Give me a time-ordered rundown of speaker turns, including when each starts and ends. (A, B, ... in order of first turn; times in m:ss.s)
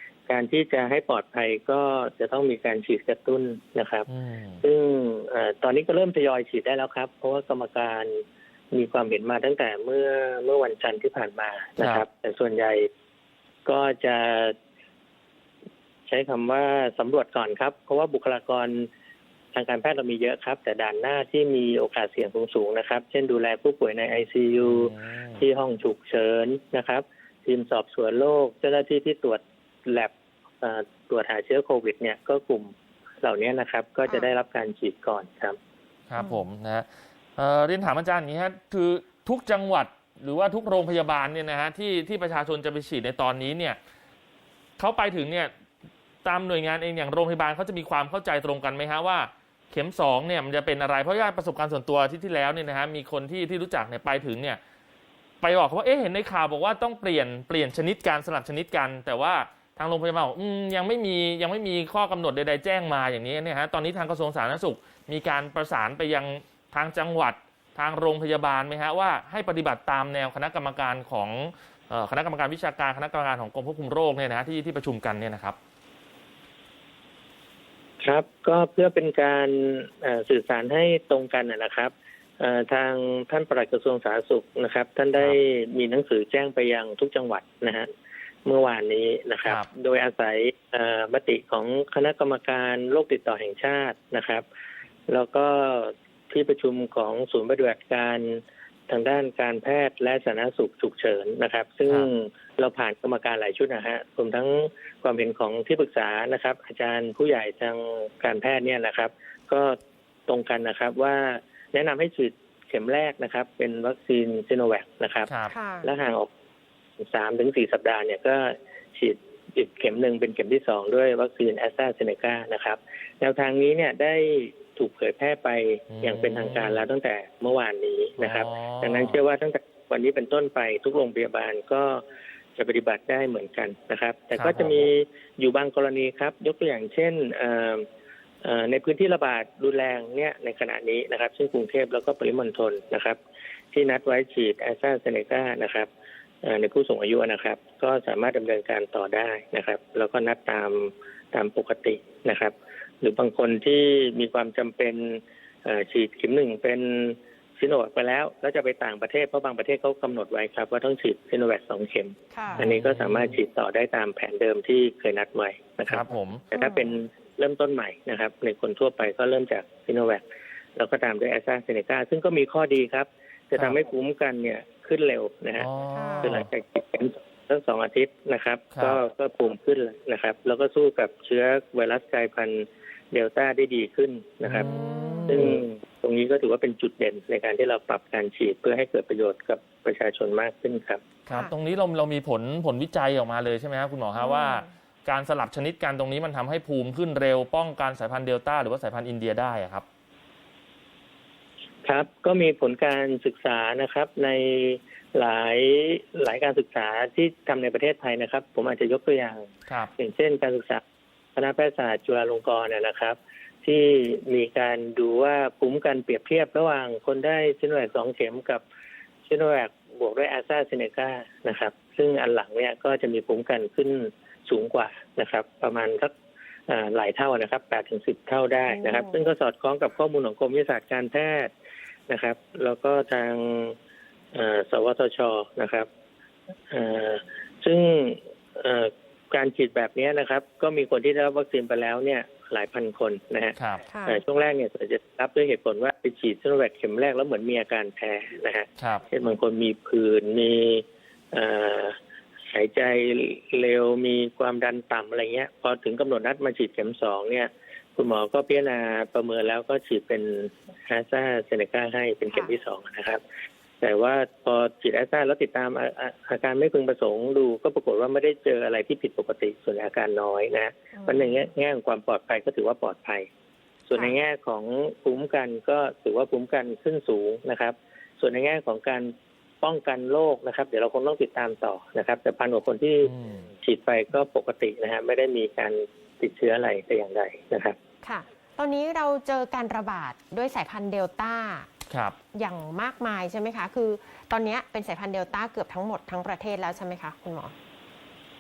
0:00.3-0:04.1 A
0:04.1-0:04.6 B
0:04.6-0:12.9 A
0:11.8-0:12.0 B
0:13.7-0:14.5 A
0:16.1-0:18.9 A
0:19.5-0:35.6 A
0:24.6-0:25.4 B
0:36.1-0:43.8 B
0:44.8-0:45.5 B
0:46.2-0:54.6 B
0:55.4-1:15.6 B
1:18.0-1:27.9 A
1:28.4-1:34.4 A
1:35.1-1:49.8 A
1:50.3-1:55.3 A
1:55.3-1:55.5 B
1:55.5-1:55.9 C
1:55.8-1:56.3 A
1:57.0-2:12.0 A
2:05.9-2:06.8 B
2:08.2-2:09.2 B
2:12.6-2:17.9 A
2:14.4-2:14.9 B
2:18.4-2:23.2 A
2:23.7-2:25.9 A
2:26.4-2:50.2 A
2:42.3-2:42.7 C
2:42.5-2:43.4 B
2:45.9-2:46.4 B
2:46.5-2:46.9 C
2:50.8-2:55.7 A
2:55.6-2:56.5 B
2:55.9-2:56.4 C
2:56.2-3:04.7 A
2:58.7-2:59.0 B
3:04.5-3:05.6 B
3:04.6-3:05.5 C
3:05.3-3:11.0 A
3:11.3-3:11.5 C
3:11.3-3:19.8 B
3:14.2-3:14.7 C
3:21.8-3:29.5 A
3:30.0-3:30.8 A
3:31.4-3:38.6 A
3:39.3-3:46.1 A
3:46.7-3:51.5 A
3:48.7-3:49.2 C
3:52.1-3:53.8 A
3:54.3-3:55.9 A
3:56.7-4:12.0 A
4:03.6-4:03.8 B
4:03.9-4:04.2 C
4:08.8-4:09.0 B
4:12.5-4:23.2 A
4:23.8-4:33.3 A
4:31.0-4:31.3 C
4:33.9-4:47.8 A
4:43.0-4:43.5 B
4:48.0-4:51.7 C
4:51.9-4:52.2 B
4:52.3-4:57.5 C